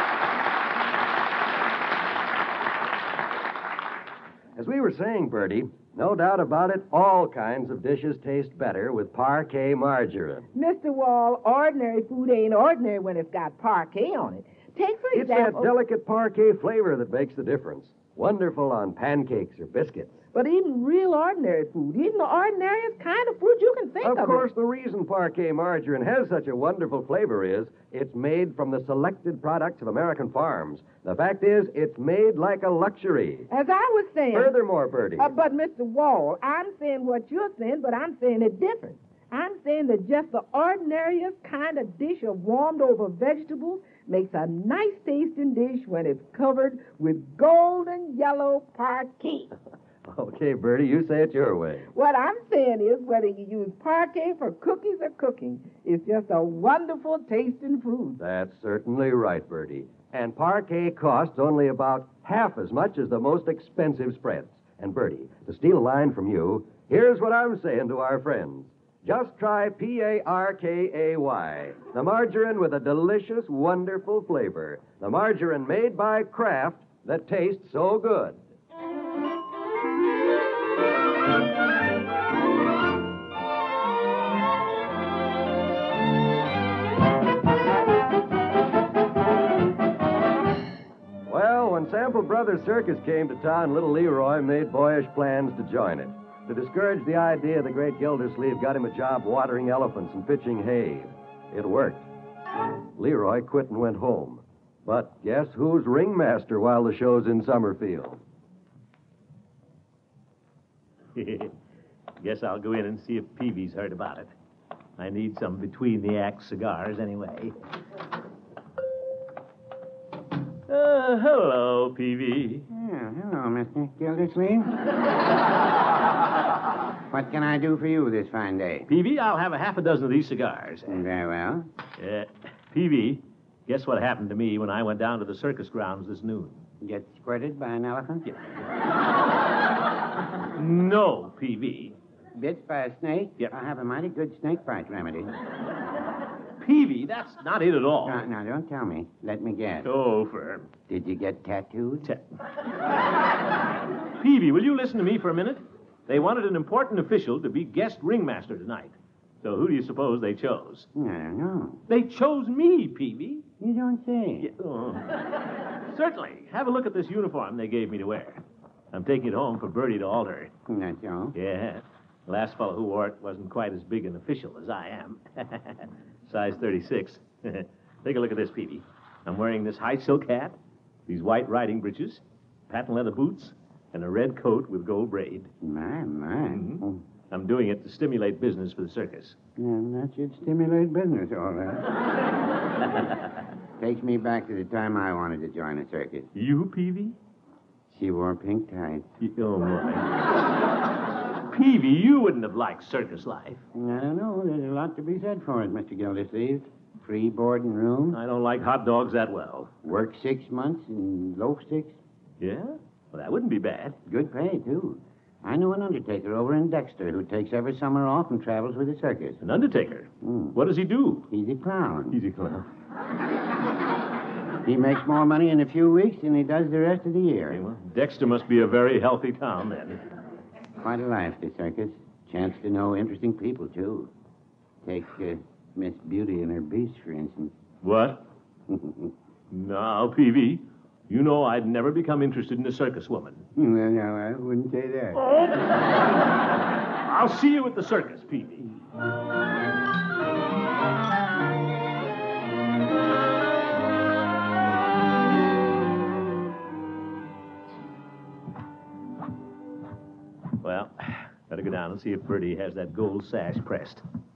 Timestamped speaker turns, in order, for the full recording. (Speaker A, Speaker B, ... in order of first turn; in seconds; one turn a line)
Speaker A: 4.6-10.5
Speaker B: 10.5-15.8
Speaker A: 15.1-20.2
Speaker B: 20.3-24.5
Speaker A: 24.0-33.5
Speaker B: 33.5-34.6
Speaker A: 34.3-35.4
Speaker B: 35.2-49.5
Speaker A: 50.1-51.9
Speaker B: 51.9-58.2
Speaker A: 58.2-78.4
Speaker A: 91.3-102.0
Speaker A: 103.0-108.2
Speaker C: 111.2-111.5
Speaker C: 112.2-114.3
Speaker C: 115.0-117.5
Speaker C: 120.7-122.7
Speaker D: 122.7-124.8
Speaker D: 127.1-128.9
Speaker C: 128.9-131.0
Speaker D: 130.9-131.7
Speaker C: 132.0-136.6
Speaker D: 136.8-138.3
Speaker C: 140.6-142.0
Speaker D: 142.4-145.3
Speaker C: 146.6-148.2
Speaker D: 148.0-149.9
Speaker C: 149.8-150.7
Speaker D: 150.9-152.1
Speaker C: 154.2-160.9
Speaker D: 160.9-161.8
Speaker C: 161.9-163.5
Speaker D: 163.6-164.5
Speaker C: 164.4-170.5
Speaker D: 170.7-171.3
Speaker C: 171.3-180.6
Speaker C: 181.1-185.5
Speaker D: 185.6-187.0
Speaker C: 186.5-189.4
Speaker D: 189.6-191.9
Speaker D: 193.8-196.3
Speaker C: 196.3-197.2
Speaker D: 197.9-199.1
Speaker C: 199.2-200.1
Speaker C: 201.5-203.6
Speaker D: 203.7-208.2
Speaker C: 208.1-209.7
Speaker D: 209.8-212.0
Speaker C: 212.4-214.0
Speaker D: 214.1-219.4
Speaker C: 219.4-221.3
Speaker D: 220.2-220.6
Speaker D: 221.3-222.2
Speaker C: 222.1-222.7
Speaker D: 224.6-227.6
Speaker C: 227.5-230.0
Speaker D: 230.8-234.1
Speaker D: 234.8-237.5
Speaker C: 237.8-238.2
Speaker D: 238.7-239.1
Speaker C: 239.5-243.4
Speaker D: 243.6-245.2
Speaker C: 245.2-246.1
Speaker C: 247.1-248.7
Speaker C: 260.6-264.0